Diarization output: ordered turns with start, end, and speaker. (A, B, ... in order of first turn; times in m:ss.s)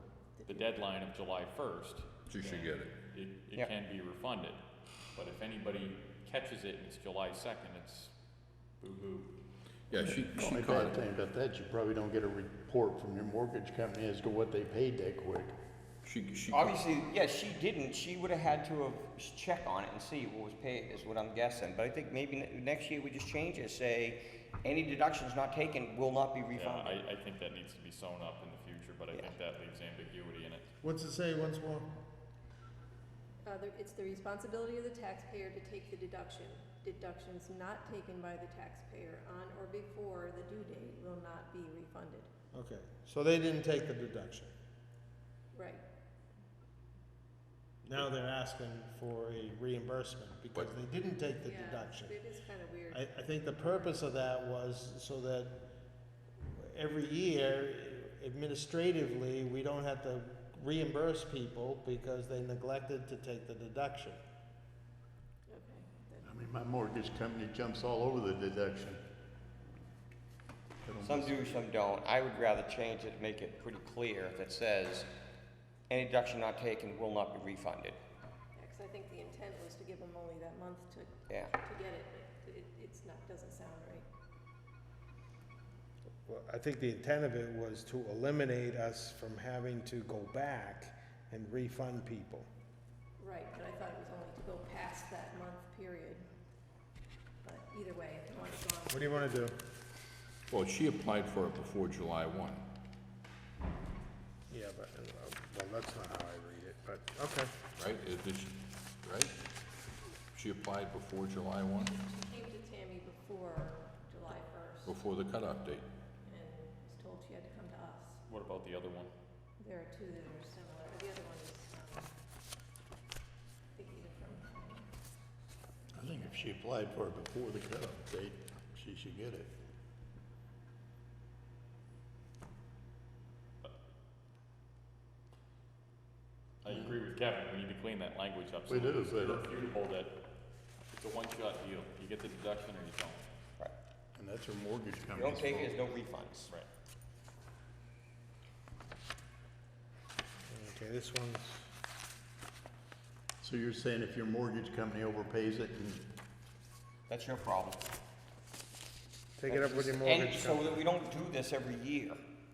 0:00.5-0:04.6 A
0:02.3-0:02.9 B
0:05.1-0:08.1 A
0:08.8-0:09.3 A
0:09.9-0:11.0 B
0:10.2-0:15.5 C
0:16.0-0:16.8 B
0:16.5-0:27.0 D
0:26.5-0:30.7 A
0:30.8-0:31.9 E
0:33.4-0:42.3 F
0:42.5-0:44.5 E
0:45.5-0:45.8 F
0:47.8-0:52.2 E
0:51.4-0:53.9 F
0:52.9-0:55.5 E
0:56.6-1:04.2 E
1:05.5-1:06.2 F
1:06.2-1:09.0 C
1:10.8-1:11.7 C
1:11.0-1:15.1 D
1:15.9-1:18.0 D
1:18.6-1:24.1 F
1:21.3-1:21.6 D
1:26.3-1:32.5 E
1:33.2-1:36.3 F
1:37.4-1:39.4 F
1:38.9-1:39.6 E
1:40.5-1:42.7 B
1:44.5-1:47.6 E
1:47.8-1:49.4 B
1:50.3-1:51.9 B
1:51.8-1:55.0 F
1:54.8-1:55.9 B
1:56.2-1:58.2 F
1:58.3-1:59.1 A
1:59.6-2:02.1 F
2:03.7-2:04.9 F
2:05.9-2:09.5 C
2:16.6-2:20.1 A
2:16.7-2:17.0 C
2:18.7-2:19.6 C
2:20.9-2:23.2 A
2:24.1-2:25.8 C
2:25.1-2:26.5 D
2:30.5-2:31.7 E
2:33.4-2:36.1 C
2:37.1-2:37.8 D
2:39.4-2:40.8 E
2:39.5-2:42.2 D